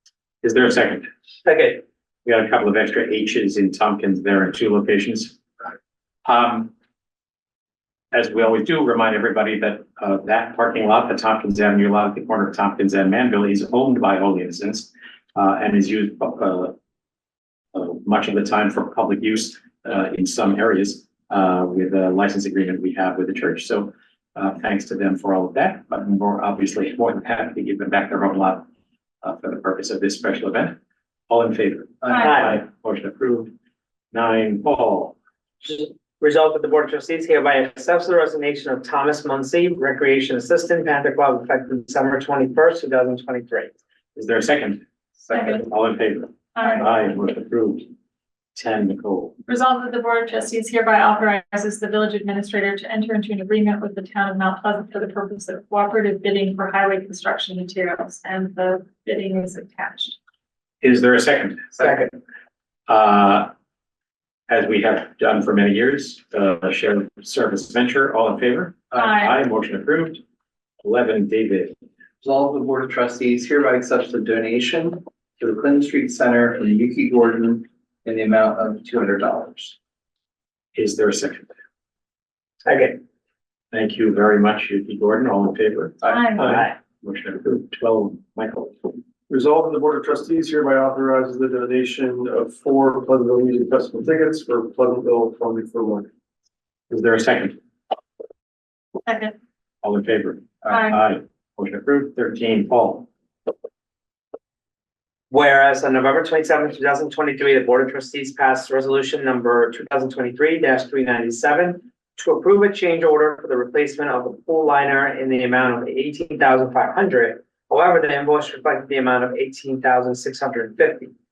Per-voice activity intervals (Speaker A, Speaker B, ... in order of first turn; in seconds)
Speaker A: 0.4-1.1, 2.2-5.4, 6.2-6.7, 8.1-16.7, 17.7-28.6, 29.2-30.8, 31.3-33.5, 34.1-35.1, 44.1-44.8, 45.6-47.9, 48.5-49.4, 60.8-61.8, 62.9-63.5, 64.5-70.2, 70.8-71.8, 80.7-81.5, 83.7-88.9, 96.9-97.6, 99.8-103.1
Speaker B: 1.4-1.8, 32.1-32.6, 35.6-43.7, 61.8-62.1, 82.6-83.0, 86.4-86.7, 105.3-121.1
Speaker C: 32.0-32.3, 45.3-45.6, 46.5-46.9, 49.5-60.1, 69.0-69.4, 86.1-86.5, 99.0-99.3, 100.7-101.0
Speaker D: 72.2-79.8
Speaker E: 89.3-96.1